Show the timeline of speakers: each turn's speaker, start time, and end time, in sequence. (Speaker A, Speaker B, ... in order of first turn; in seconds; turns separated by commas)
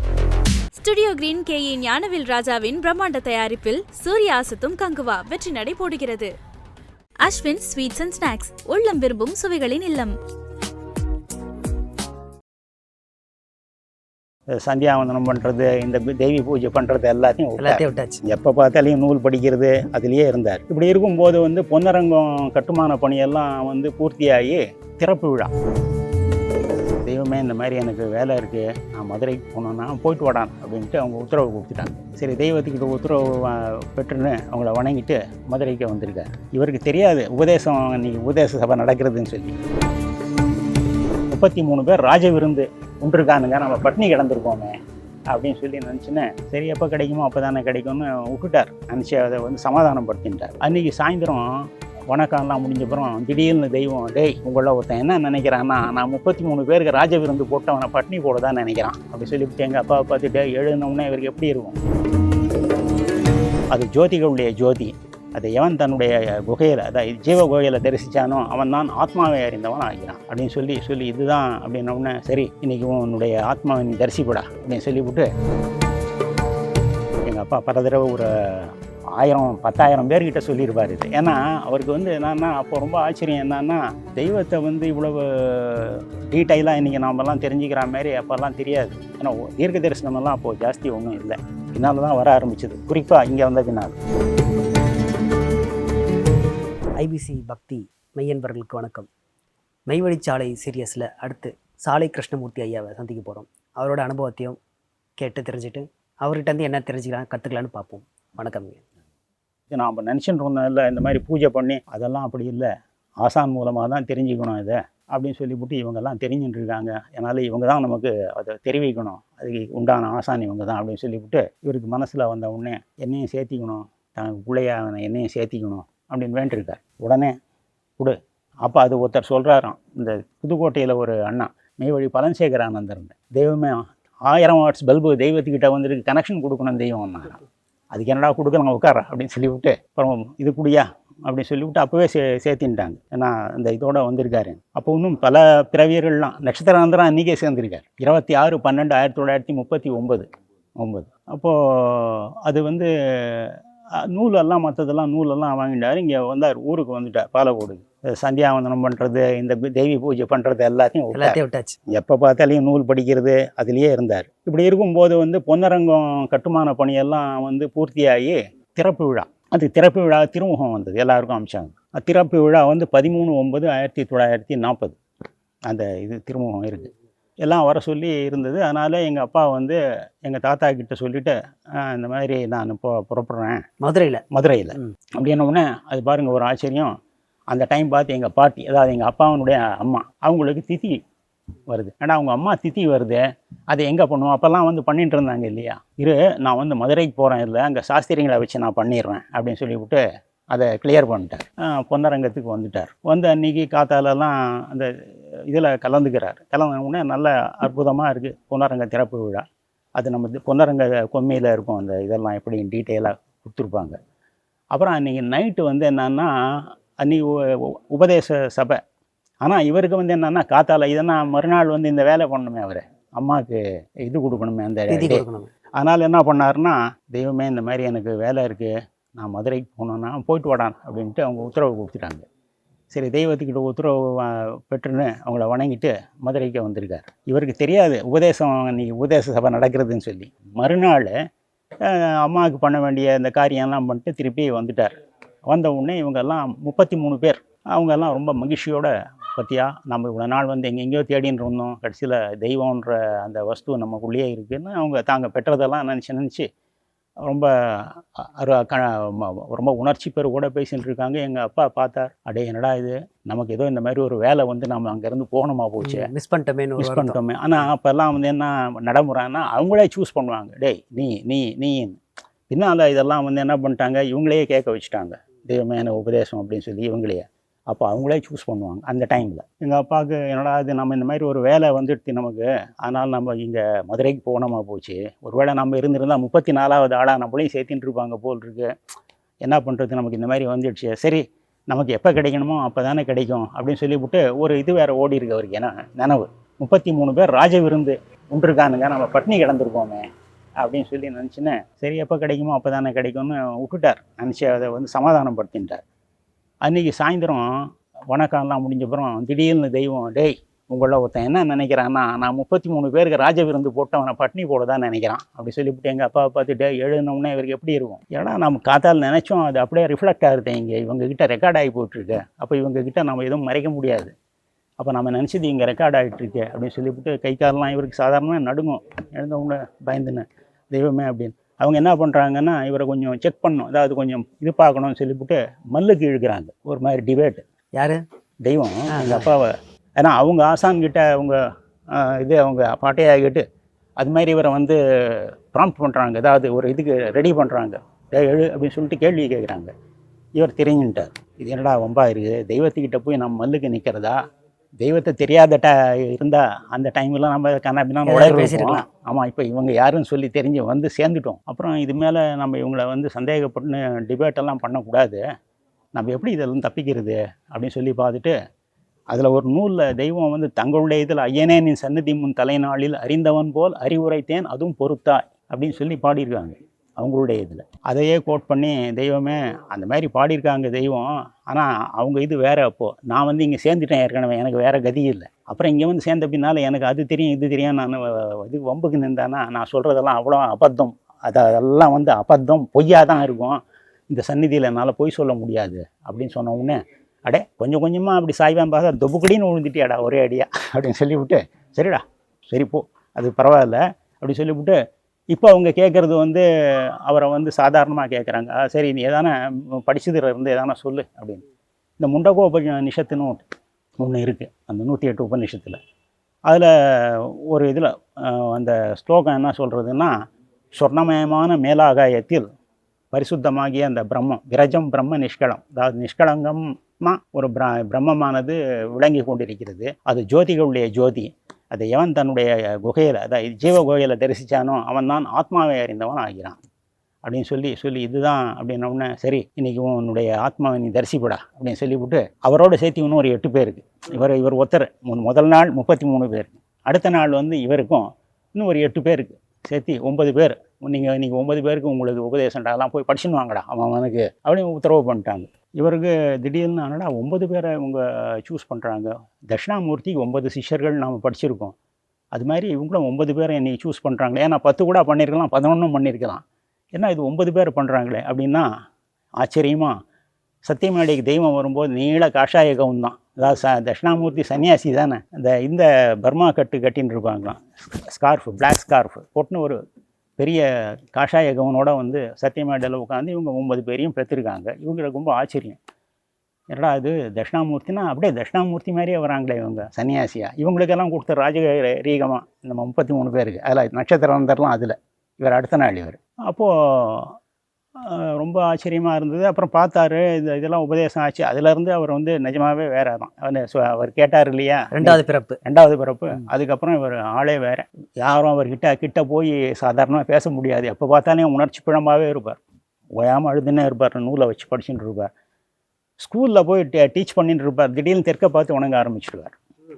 Speaker A: 0.8-6.3, Speaker A: 7.2-10.1, Speaker B: 14.5-25.5, Speaker C: 17.6-18.2, Speaker B: 27.0-39.5, Speaker B: 41.3-44.8, Speaker B: 45.3-61.8, Speaker B: 63.7-75.3, Speaker B: 77.3-94.0, Speaker C: 97.0-99.1, Speaker C: 99.9-104.6, Speaker C: 105.2-108.8, Speaker B: 109.7-112.7, Speaker B: 113.2-127.3, Speaker B: 128.0-137.4, Speaker B: 137.9-150.3, Speaker B: 150.8-161.4, Speaker C: 161.1-161.8, Speaker B: 161.9-175.0, Speaker B: 175.7-176.9, Speaker B: 177.4-183.6, Speaker C: 183.8-184.2, Speaker B: 184.3-186.9, Speaker B: 187.5-191.0, Speaker B: 191.7-204.9, Speaker B: 205.5-209.4, Speaker B: 210.0-214.0, Speaker B: 214.7-218.8, Speaker B: 219.4-225.2, Speaker C: 224.9-225.5, Speaker B: 225.8-232.2, Speaker B: 232.9-241.1, Speaker B: 241.8-244.9, Speaker B: 245.5-256.5, Speaker B: 257.2-266.1, Speaker C: 265.8-267.2, Speaker B: 266.8-272.0, Speaker B: 272.5-288.7, Speaker B: 289.4-300.1, Speaker B: 300.6-305.8, Speaker B: 306.6-324.1, Speaker B: 324.8-337.4, Speaker C: 337.8-338.0, Speaker B: 338.4-343.4, Speaker C: 338.9-339.3, Speaker B: 344.0-349.7, Speaker B: 350.4-354.2, Speaker B: 354.8-365.2, Speaker C: 358.0-358.8, Speaker B: 365.9-368.3, Speaker B: 369.1-404.8, Speaker B: 405.3-411.4, Speaker B: 412.0-413.4, Speaker B: 414.0-415.8, Speaker B: 416.5-420.1, Speaker B: 420.8-422.4, Speaker B: 423.1-436.6, Speaker B: 437.2-461.7, Speaker B: 462.3-466.4, Speaker B: 466.9-468.7, Speaker B: 469.4-469.9, Speaker B: 470.6-479.8, Speaker B: 480.4-485.8, Speaker B: 486.7-497.4, Speaker B: 498.0-512.6, Speaker C: 504.9-505.6, Speaker B: 513.1-515.3, Speaker B: 516.2-519.5